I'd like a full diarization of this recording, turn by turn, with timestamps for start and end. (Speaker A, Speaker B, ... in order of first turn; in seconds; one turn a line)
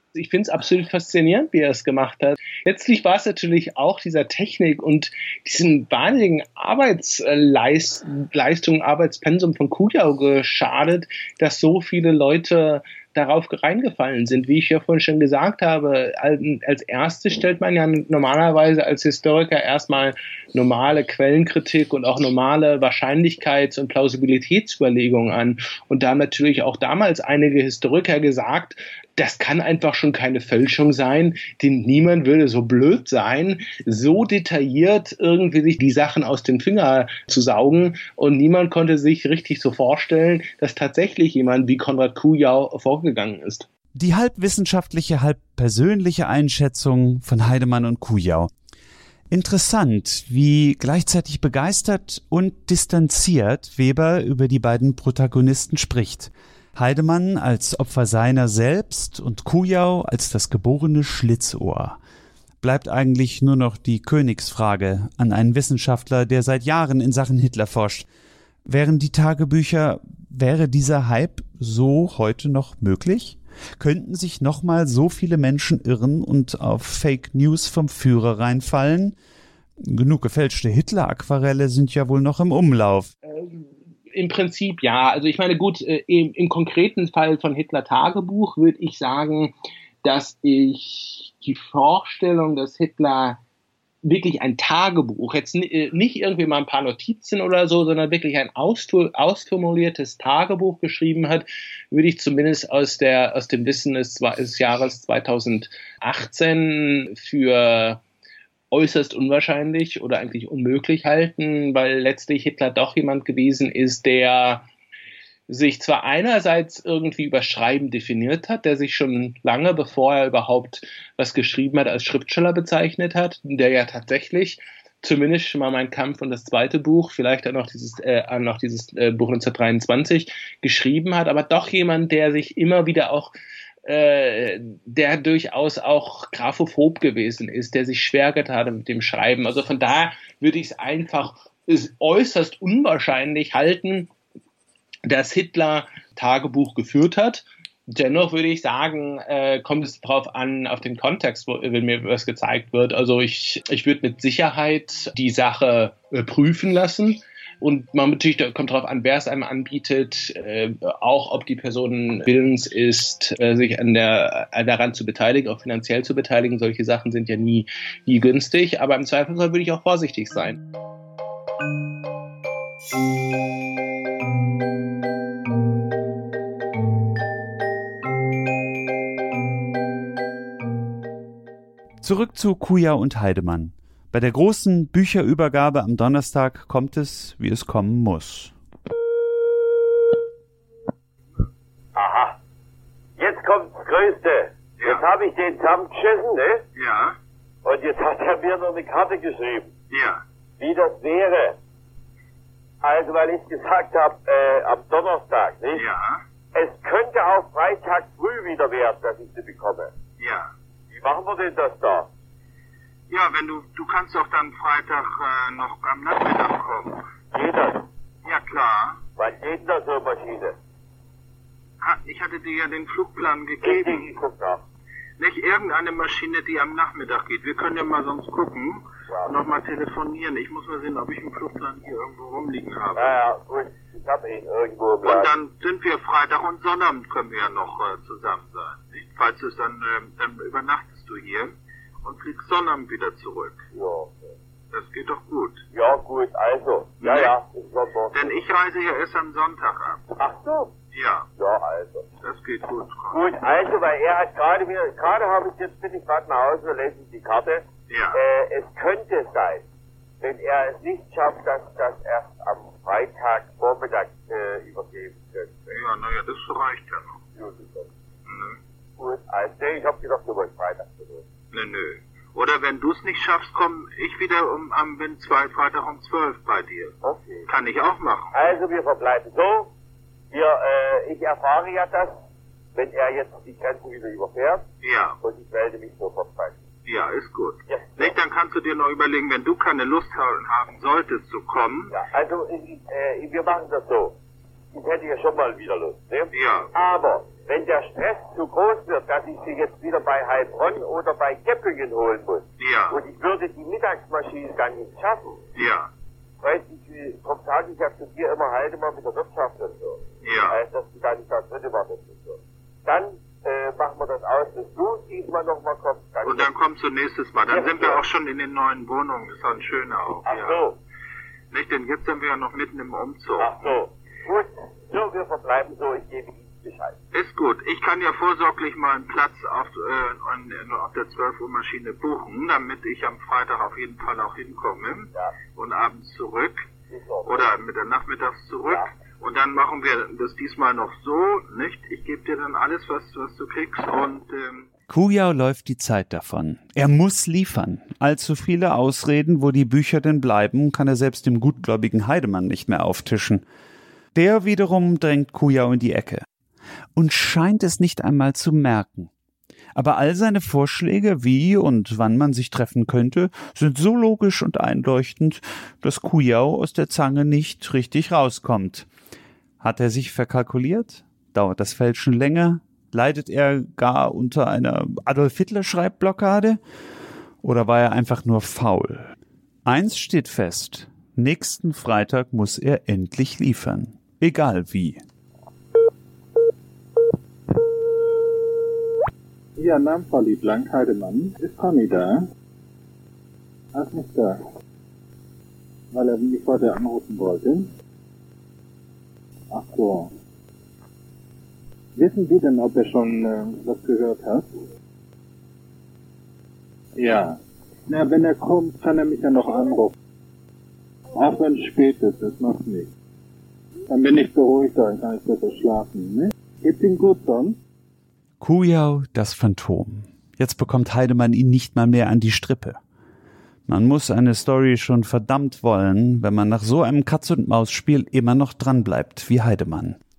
Speaker A: 0.1-43.7
Speaker B: 43.9-48.5
Speaker B: 49.3-62.0
Speaker B: 62.6-68.1
Speaker B: 68.7-79.2
Speaker B: 79.8-83.1
Speaker A: 83.3-93.4
Speaker A: 94.0-108.0
Speaker A: 108.7-114.7
Speaker A: 115.5-133.3
Speaker A: 133.8-144.1
Speaker A: 145.1-170.6
Speaker B: 182.0-188.5
Speaker C: 191.9-192.4
Speaker C: 193.2-196.6
Speaker D: 194.8-195.0
Speaker D: 196.8-197.2
Speaker C: 197.6-199.7
Speaker D: 199.9-200.2
Speaker C: 200.6-201.6
Speaker C: 202.8-205.8
Speaker D: 205.7-206.2
Speaker C: 206.5-209.9
Speaker D: 210.2-210.5
Speaker C: 210.9-212.1
Speaker D: 213.1-217.0
Speaker C: 217.3-217.8
Speaker D: 218.2-219.0
Speaker C: 219.2-220.6
Speaker D: 221.8-224.1
Speaker C: 223.6-224.6
Speaker D: 225.2-233.2
Speaker C: 233.0-235.3
Speaker D: 235.1-243.6
Speaker C: 243.7-244.3
Speaker D: 244.7-245.6
Speaker C: 245.7-248.4
Speaker D: 247.0-247.3
Speaker D: 248.1-250.0
Speaker C: 250.1-250.7
Speaker D: 250.9-251.3
Speaker C: 251.4-252.1
Speaker D: 252.2-253.3
Speaker C: 253.1-259.6
Speaker D: 257.9-258.2
Speaker C: 260.2-265.6
Speaker D: 265.7-267.1
Speaker C: 267.4-267.9
Speaker D: 268.3-268.6
Speaker C: 269.0-271.2
Speaker D: 271.5-276.9
Speaker C: 277.0-277.4
Speaker D: 277.5-278.4
Speaker C: 278.3-279.7
Speaker C: 280.3-282.1
Speaker C: 282.8-284.6
Speaker D: 284.8-285.2
Speaker C: 285.2-286.6
Speaker D: 286.9-291.9
Speaker C: 287.7-288.1
Speaker C: 291.9-294.1
Speaker C: 294.7-305.4
Speaker D: 296.3-296.7
Speaker D: 302.6-303.0
Speaker D: 305.6-305.9
Speaker C: 306.4-316.5
Speaker D: 310.2-310.6
Speaker D: 316.2-320.6
Speaker C: 317.5-318.1
Speaker C: 320.2-320.8
Speaker D: 321.5-323.8
Speaker C: 323.4-327.0
Speaker D: 327.1-336.6
Speaker C: 336.9-337.5
Speaker D: 337.3-344.6
Speaker B: 344.9-353.4
Speaker B: 354.1-356.3
Speaker B: 356.9-359.1
Speaker B: 359.8-368.9
Speaker B: 369.6-376.6
Speaker B: 377.4-379.1
Speaker B: 379.6-385.0
Speaker E: 389.6-392.3
Speaker E: 393.7-394.4
Speaker E: 395.9-397.7
Speaker E: 399.5-400.1
Speaker E: 401.9-404.5
Speaker E: 407.0-409.9
Speaker E: 411.1-412.9
Speaker E: 413.9-417.6
Speaker B: 418.4-422.8
Speaker B: 423.7-430.0